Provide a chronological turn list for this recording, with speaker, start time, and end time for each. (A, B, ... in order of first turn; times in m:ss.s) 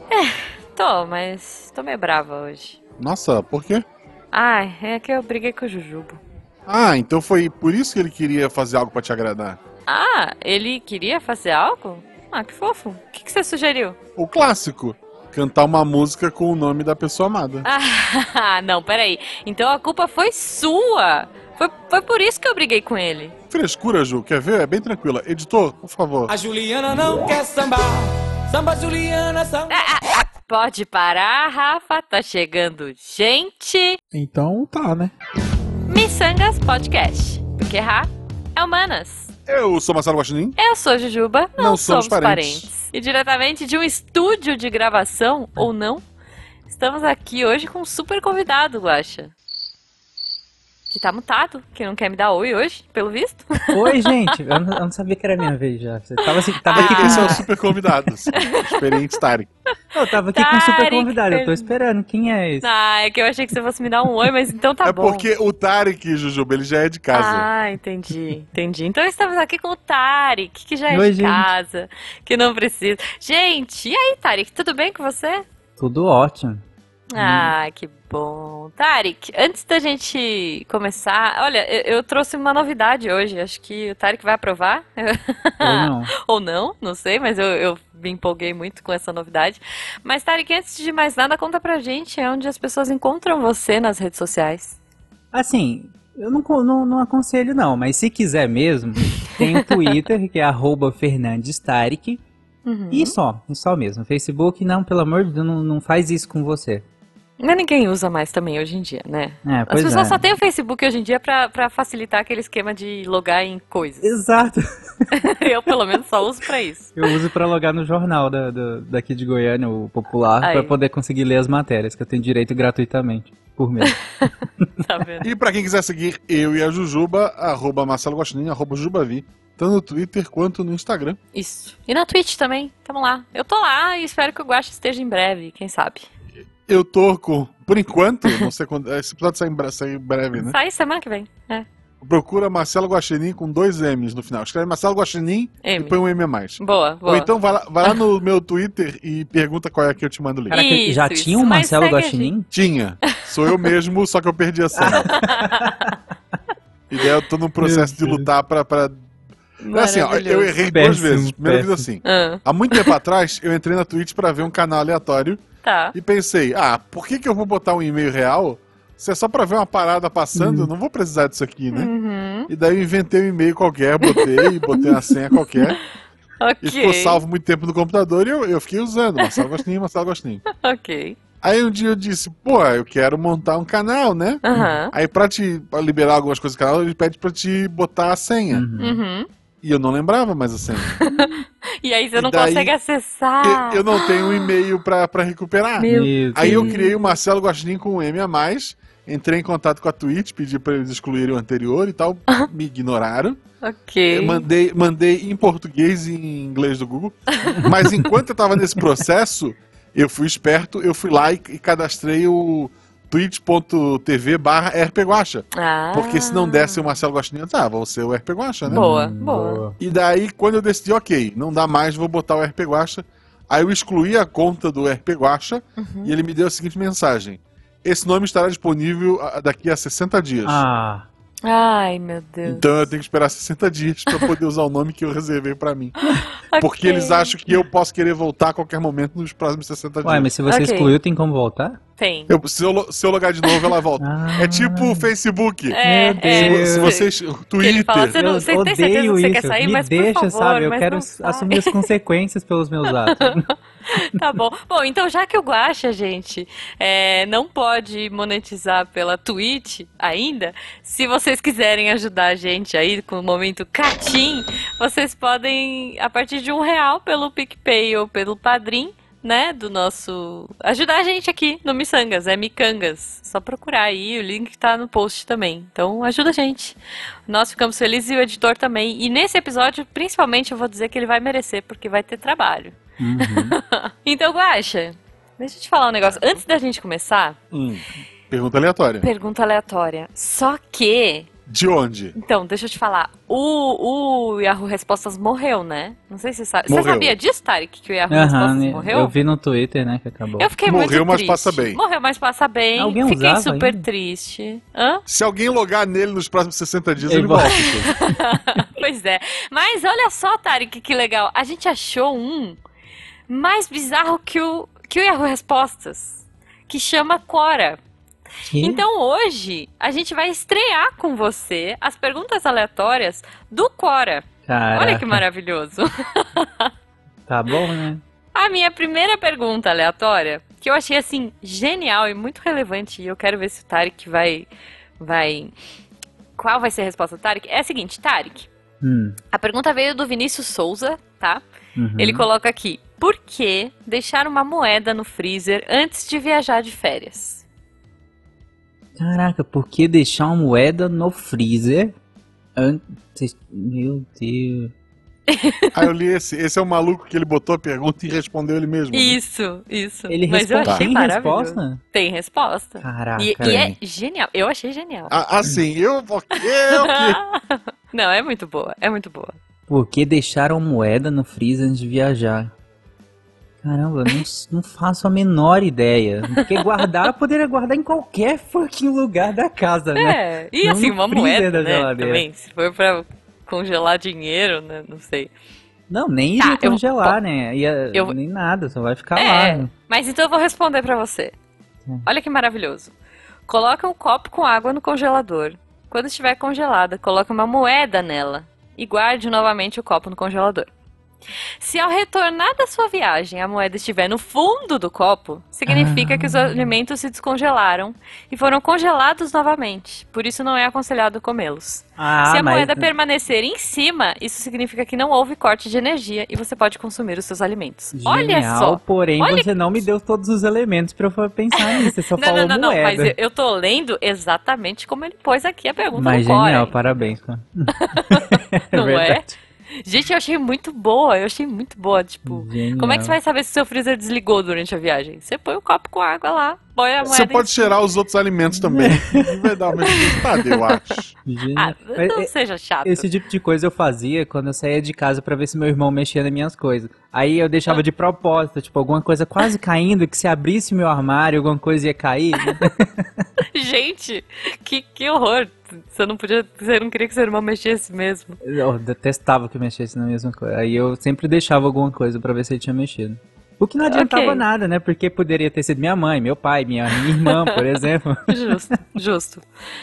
0:00.1-0:02.8 A
0:03.0-0:03.8 B
0:04.3-0:06.2 A
0:06.7-0:09.6 B
0:09.9-0:14.0 A
0:14.2-0:17.7 B
0:17.6-0:23.3 A
0:23.5-0:26.3 B
0:26.3-0:29.8 C
0:29.7-0:34.0 A
0:35.9-0:39.3 A
0:39.5-0:40.6 B
0:40.6-0:46.0 A
0:41.6-0:42.7 B
0:46.7-0:49.3 A
0:50.9-0:54.1 A
0:53.7-0:57.4 D
0:56.3-0:57.4 A
0:56.7-0:59.5 B
0:58.3-0:58.9 A
0:59.9-1:02.7 D
1:00.3-1:01.7 A
1:02.6-1:05.2 A
1:04.8-1:07.5 B
1:07.1-1:15.4 A
1:10.9-1:11.5 D
1:15.8-1:16.6 D
1:17.1-1:34.8 A
1:17.2-1:17.5 D
1:25.6-1:26.1 D
1:35.3-1:42.2 D
1:39.4-1:40.0 A
1:42.6-1:43.1 A
1:42.9-1:46.8 D
1:47.4-1:54.0 A
1:49.4-1:50.2 D
1:54.0-1:55.1 D
1:55.1-1:57.1 A
1:57.0-2:04.0 D
2:00.4-2:00.7 A
2:03.9-2:04.3 A
2:04.8-2:05.3 A
2:05.2-2:11.2 B
2:11.3-2:16.1 A
2:16.7-2:20.6 B
2:20.4-2:21.6 A
2:22.0-2:30.6 B
2:25.6-2:26.0 A
2:26.6-2:27.3 A
2:30.5-2:32.5 D
2:30.5-2:32.3 A
2:32.5-2:35.2 B
2:33.1-2:33.7 A
2:34.7-2:35.9 D
2:35.1-2:35.7 A
2:36.9-2:39.1 B
2:37.6-2:38.3 D
2:39.6-2:40.6 A
2:39.7-2:45.4 B
2:40.7-2:41.8 D
2:42.0-2:42.9 A
2:45.6-2:45.9 A
2:45.9-2:51.9 B
2:50.3-2:50.7 D
2:51.7-2:52.5 A
2:52.5-2:55.8 B
2:54.0-2:54.6 A
2:56.4-2:57.2 A
2:56.6-3:00.4 B
2:59.2-2:59.5 A
3:00.5-3:01.2 A
3:01.4-3:08.6 B
3:04.4-3:04.9 A
3:08.5-3:09.0 D
3:08.8-3:09.3 A
3:09.6-3:11.0 B
3:11.0-3:14.5 A
3:12.1-3:12.7 B
3:13.4-3:23.4 B
3:15.8-3:17.1 A
3:15.9-3:16.7 D
3:23.6-3:24.4 A
3:24.1-3:38.8 B
3:27.3-3:27.6 A
3:27.5-3:28.0 D
3:35.5-3:37.0 A
3:38.6-3:39.8 D
3:38.7-3:39.6 A
3:39.8-3:50.6 B
3:45.8-3:46.1 A
3:50.4-3:51.1 D
3:51.4-3:52.6 A
3:52.4-3:55.9 B
3:56.0-3:57.4 A
3:56.6-4:00.3 B
4:00.0-4:01.8 D
4:00.5-4:01.0 A
4:02.0-4:02.3 A
4:02.3-4:08.2 B
4:03.4-4:03.8 A
4:04.0-4:05.1 D
4:05.7-4:11.8 A
4:05.8-4:06.9 D
4:08.1-4:13.4 D
4:13.1-4:36.8 A
4:37.3-4:47.4 A
4:43.0-4:43.6 D
4:47.5-4:49.1 B
4:49.0-4:51.3 A
4:51.5-4:52.1 B
4:52.2-4:59.1 A
4:56.7-4:57.1 B
4:58.1-5:00.5 D
5:00.4-5:05.0 A
5:00.6-5:01.8 B
5:02.8-5:03.8 D
5:05.1-5:07.9 B
5:07.0-5:08.1 D
5:07.5-5:12.6 A
5:13.3-5:17.8 A
5:18.4-5:18.8 D
5:18.6-5:26.7 A
5:24.5-5:25.2 D
5:27.3-5:28.0 D
5:28.3-5:34.5 A
5:35.0-5:35.5 A
5:36.4-5:38.5 A
5:38.8-5:39.2 D
5:39.3-5:41.4 A
5:41.8-5:42.2 D
5:42.0-5:47.4 A
5:49.0-5:51.9 D
5:52.6-5:54.7 D
5:55.3-5:55.8 A
5:55.7-5:59.2 B
5:58.9-6:05.1 A
6:00.1-6:01.8 D
6:02.8-6:03.7 D
6:03.4-6:03.7 B
6:05.1-6:07.2 B
6:06.7-6:09.3 A
6:09.7-6:12.5 D
6:13.6-6:22.2 D
6:16.3-6:16.9 A
6:20.0-6:25.3 A
6:25.9-6:29.7 D
6:26.4-6:27.2 A
6:29.2-6:31.3 A
6:32.0-6:32.9 A
6:33.5-6:40.7 A
6:41.6-6:59.6 A
6:45.7-6:46.7 D
6:52.0-6:52.9 D
6:57.9-7:03.1 D
7:01.6-7:06.9 A
7:06.0-7:09.3 D
7:07.7-7:09.3 A
7:09.8-7:17.7 A
7:12.2-7:13.2 D
7:17.0-7:21.1 B
7:18.6-7:19.3 D
7:19.8-7:20.9 A
7:21.2-7:22.3 D
7:21.6-7:23.1 A
7:22.8-7:33.2 D
7:33.5-7:38.4 A
7:38.4-7:48.3 D
7:43.9-7:44.4 A
7:47.2-7:47.8 A
7:48.3-7:49.4 A